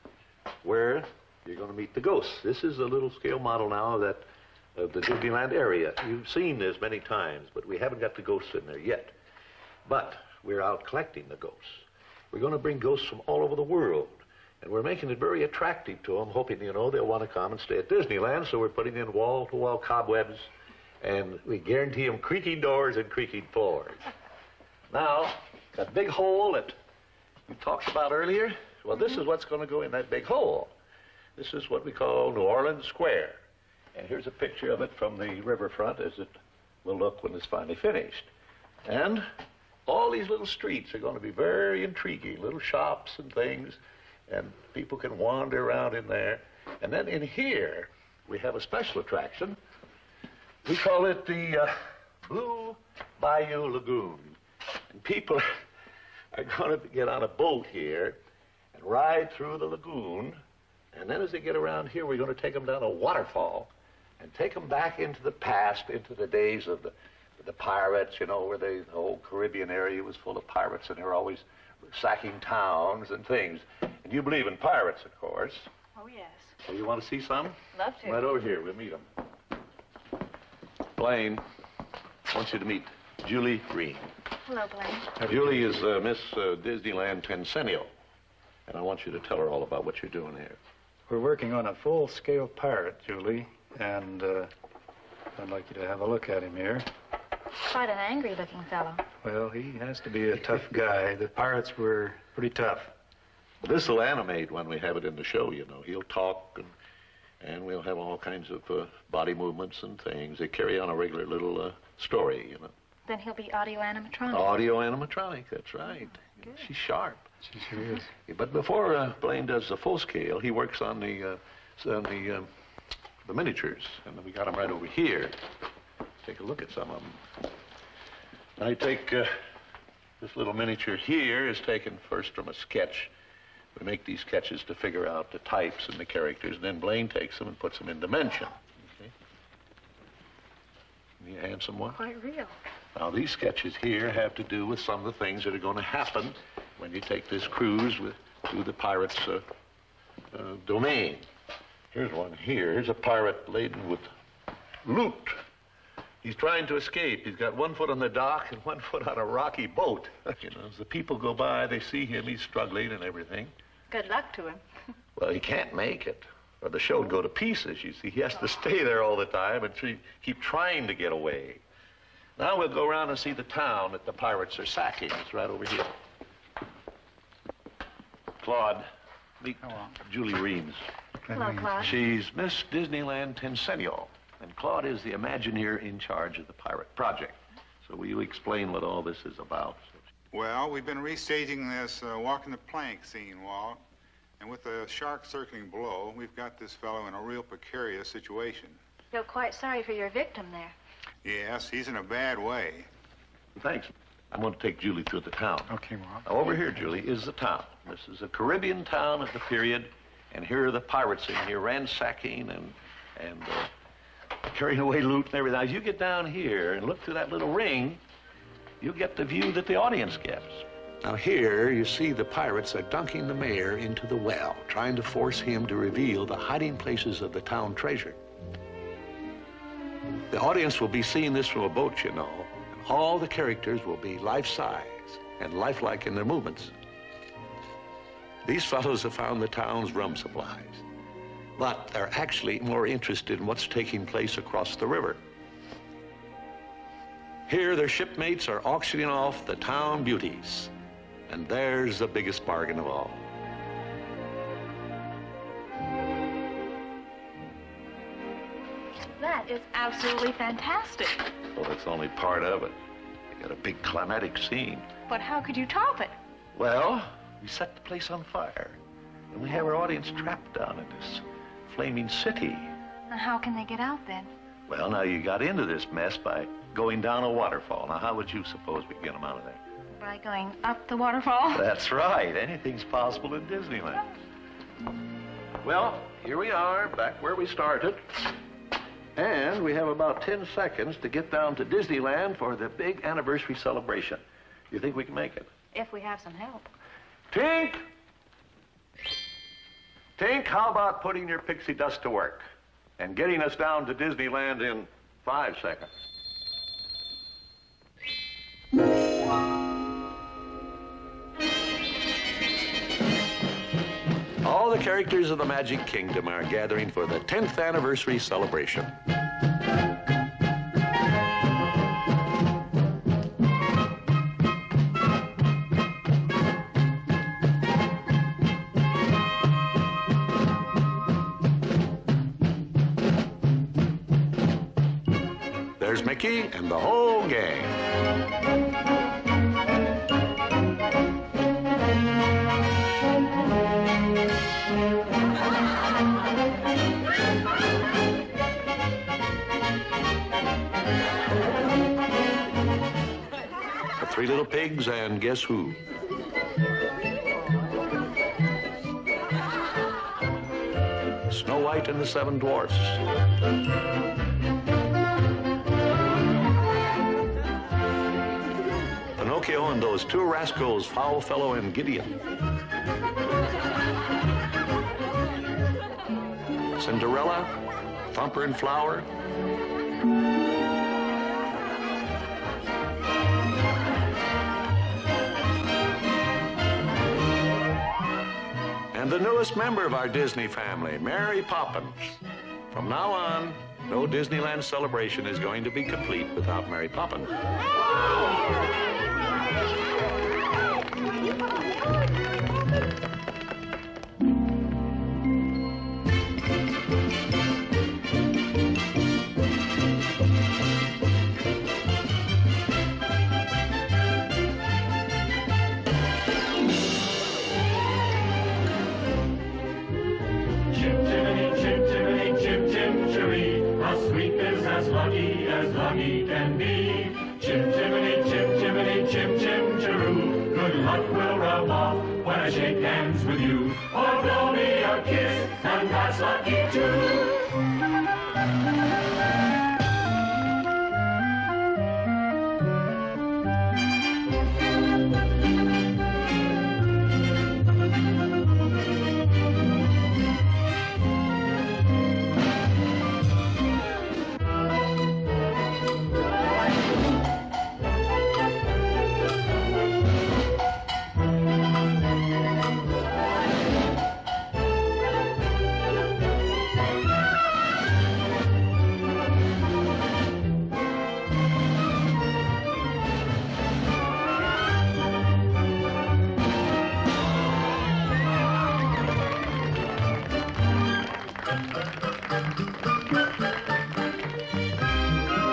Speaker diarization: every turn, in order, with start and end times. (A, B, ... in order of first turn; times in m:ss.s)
0:00.6-0:09.1 A
0:09.8-0:20.5 A
0:21.0-0:24.0 A
0:24.9-0:26.8 A
0:27.5-0:30.7 A
0:31.4-0:33.4 A
0:33.9-0:38.3 A
0:38.8-0:39.2 A
0:39.8-0:49.6 A
0:50.6-0:54.4 A
0:54.9-0:55.4 A
0:56.3-0:58.2 A
0:58.7-1:00.4 A
1:00.9-1:15.7 A
1:15.9-1:16.5 B
1:16.6-1:19.0 A
1:17.7-1:18.4 B
1:21.0-1:21.4 A
1:22.3-1:24.1 A
1:24.4-1:25.2 B
1:25.2-1:27.9 A
1:25.2-1:25.5 C
1:28.7-1:30.6 A
1:31.1-1:34.5 C
1:35.3-1:36.9 C
1:37.7-1:39.0 B
1:39.2-1:42.9 C
1:43.6-1:46.7 A
1:47.4-1:52.7 A
1:53.0-1:54.6 B
1:54.3-1:57.3 A
1:57.5-1:58.0 C
1:58.2-2:02.5 A
2:03.2-2:05.4 A
2:06.2-2:07.2 A
2:08.6-2:09.3 A
2:10.2-2:13.1 A
2:13.7-2:19.1 A
2:21.2-2:22.0 A
2:21.9-2:22.5 B
2:22.9-2:29.4 A
2:30.3-2:31.2 A
2:31.9-2:34.1 A
2:34.8-2:35.4 A
2:36.2-2:43.5 A
2:43.9-2:44.6 B
2:45.2-2:51.6 A
2:52.4-2:56.0 A
2:58.4-2:58.9 A
2:59.4-3:00.8 A
3:01.3-3:01.9 B
3:01.8-3:10.0 A
3:10.3-3:13.8 D
3:14.4-3:18.8 D
3:19.1-3:20.7 B
3:21.2-3:22.9 D
3:23.5-3:33.7 A
3:25.7-3:26.2 C
3:34.4-3:38.0 A
3:38.8-3:48.2 A
3:50.3-3:56.7 A
3:58.4-4:00.8 A
4:01.6-4:05.2 A
4:07.5-4:10.7 A
4:11.3-4:13.2 A
4:19.2-4:21.3 B
4:21.5-4:22.8 A
4:23.3-4:24.9 A
4:25.1-4:26.1 B
4:26.5-4:28.8 A
4:29.3-4:32.7 A
4:33.1-4:34.3 B
4:34.7-4:39.6 A
4:40.0-4:41.6 B
4:41.5-4:44.0 A
4:45.6-4:48.3 A
4:49.1-4:55.5 A
4:55.7-4:56.7 B
4:57.3-4:57.8 A
5:00.2-5:05.9 A
5:14.4-5:19.0 A
5:35.8-5:37.8 A
5:54.0-5:55.8 A
6:01.3-6:03.0 A
6:09.2-6:12.2 A
6:16.8-6:17.5 A
6:18.1-6:19.1 A
6:28.9-6:37.3 A
7:00.7-7:17.5 E